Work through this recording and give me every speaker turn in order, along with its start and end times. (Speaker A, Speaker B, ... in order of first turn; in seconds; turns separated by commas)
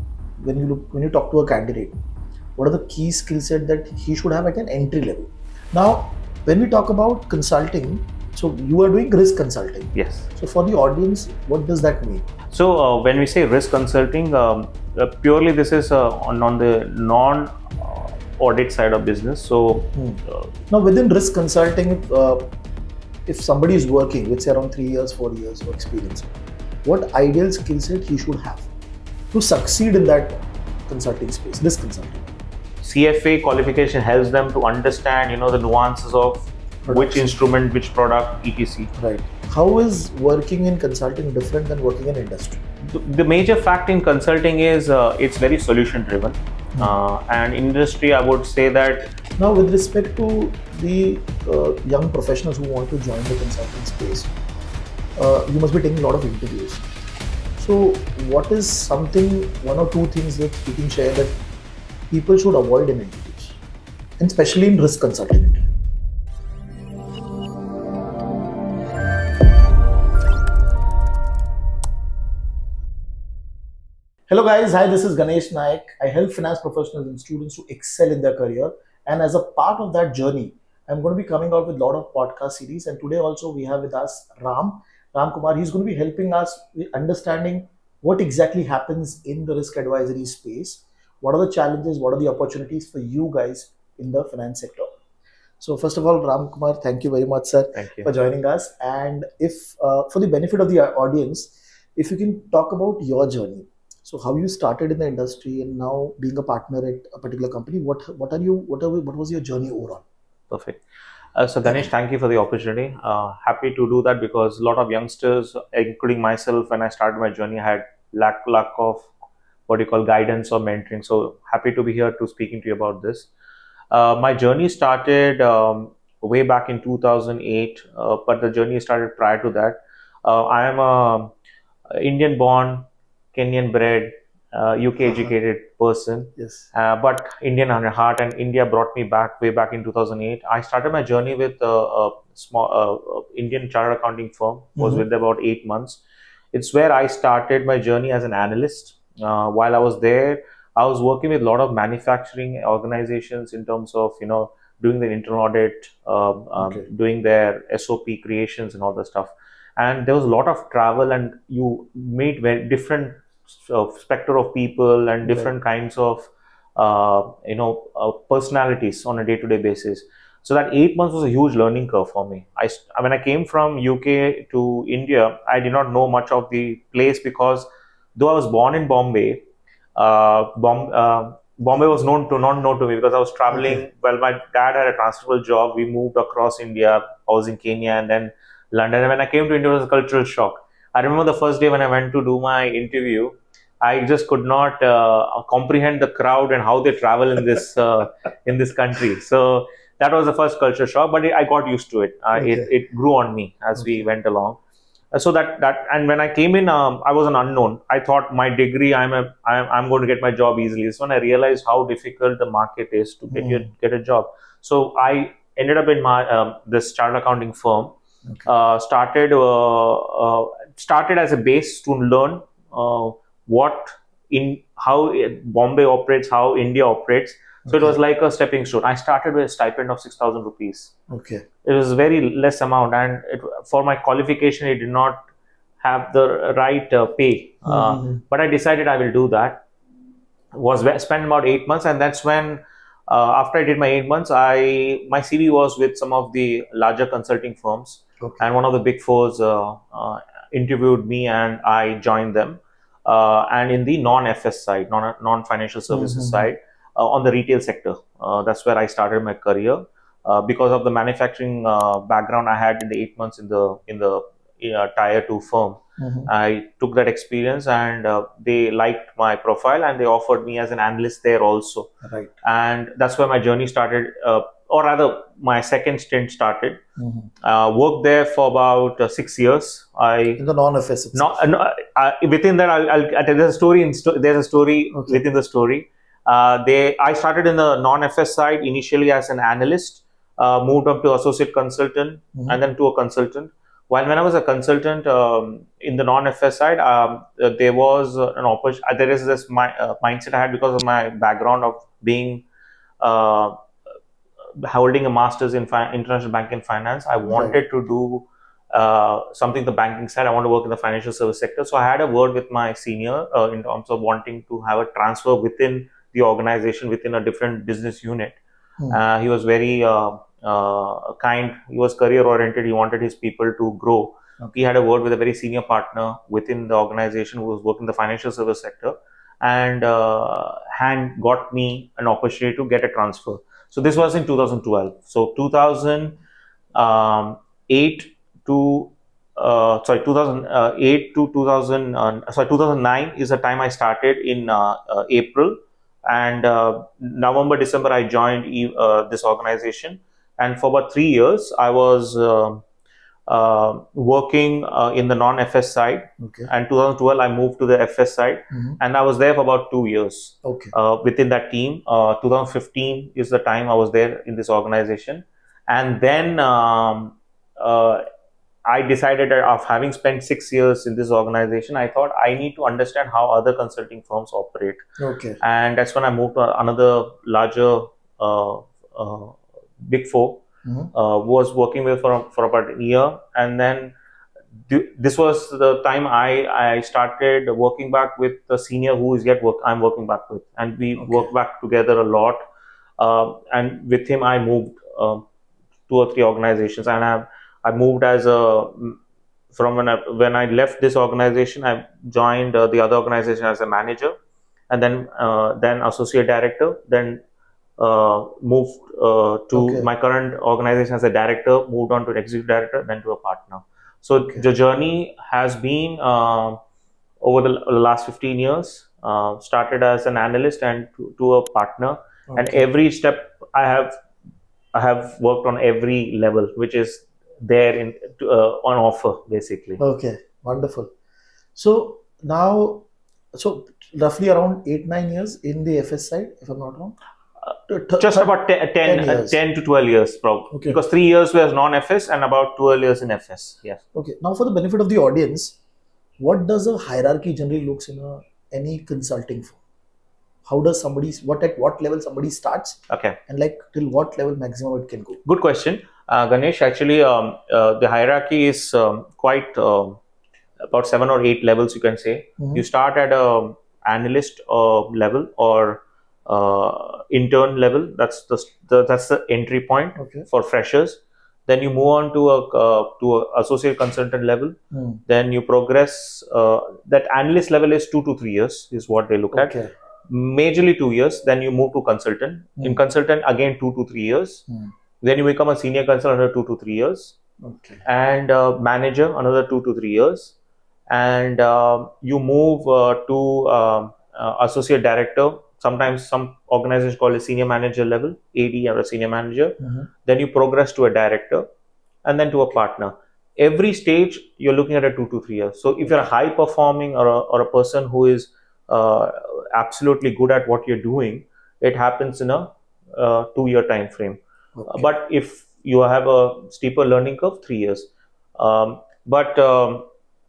Speaker A: 0.4-1.9, Speaker A: 2.6-12.3, Speaker B: 9.9-10.3, Speaker B: 12.5-20.5, Speaker A: 19.9-22.5, Speaker A: 23.3-26.3, Speaker A: 26.9-28.7, Speaker A: 29.3-32.3, Speaker B: 32.8-38.9, Speaker A: 36.9-37.5, Speaker A: 39.0-42.6, Speaker B: 42.8-49.1, Speaker A: 49.4-54.3, Speaker A: 55.2-56.9, Speaker A: 57.6-61.4, Speaker A: 62.1-63.6, Speaker A: 64.2-65.7, Speaker A: 74.3-94.9, Speaker A: 95.6-110.0, Speaker B: 97.8-98.1, Speaker B: 110.5-110.8, Speaker B: 111.3-119.1, Speaker B: 119.7-123.3, Speaker B: 123.9-131.3, Speaker B: 131.9-146.0, Speaker A: 136.4-136.7, Speaker A: 144.8-145.0, Speaker B: 146.5-204.6, Speaker A: 156.6-156.8, Speaker A: 165.2-165.5, Speaker A: 202.4-202.7, Speaker B: 205.1-230.9, Speaker A: 213.3-213.7, Speaker A: 227.7-228.0, Speaker A: 231.1-231.4, Speaker B: 231.6-235.2, Speaker B: 235.8-239.7, Speaker A: 237.7-238.2, Speaker B: 240.5-271.9, Speaker A: 255.9-256.5, Speaker A: 266.0-266.3, Speaker A: 272.0-272.3, Speaker B: 272.4-276.8, Speaker A: 277.0-277.3, Speaker B: 277.4-280.4, Speaker A: 280.4-281.4, Speaker B: 281.1-302.4, Speaker A: 284.9-285.2, Speaker B: 303.0-303.6, Speaker B: 304.6-318.4, Speaker A: 307.3-307.6, Speaker B: 318.9-336.2, Speaker B: 336.7-352.6, Speaker B: 353.3-368.0, Speaker A: 356.2-356.5, Speaker A: 358.5-358.8, Speaker A: 360.4-360.7, Speaker B: 368.6-374.8, Speaker A: 375.0-375.4, Speaker B: 375.4-380.4, Speaker A: 380.6-380.9, Speaker B: 380.9-383.9, Speaker B: 384.7-392.4, Speaker A: 391.0-391.3, Speaker B: 393.0-395.2, Speaker B: 395.9-399.0, Speaker B: 399.5-404.1, Speaker B: 404.7-407.2, Speaker B: 407.8-416.6, Speaker A: 409.5-409.9, Speaker B: 417.2-424.0, Speaker A: 422.3-422.7, Speaker B: 424.7-429.8, Speaker A: 429.8-430.9, Speaker A: 431.6-437.0, Speaker A: 437.7-439.4, Speaker B: 438.0-443.8, Speaker A: 440.5-440.8, Speaker A: 443.9-445.6, Speaker A: 446.2-449.6, Speaker A: 450.5-455.2, Speaker B: 452.9-453.2, Speaker B: 455.2-460.0, Speaker B: 460.6-479.6, Speaker A: 462.4-462.6, Speaker A: 470.0-470.3, Speaker A: 474.7-475.0, Speaker A: 479.3-479.7, Speaker B: 480.1-484.4, Speaker B: 485.0-487.2, Speaker A: 487.4-487.8, Speaker B: 487.8-490.4, Speaker B: 490.9-501.5, Speaker A: 499.6-499.9, Speaker B: 502.0-519.9, Speaker A: 514.6-514.9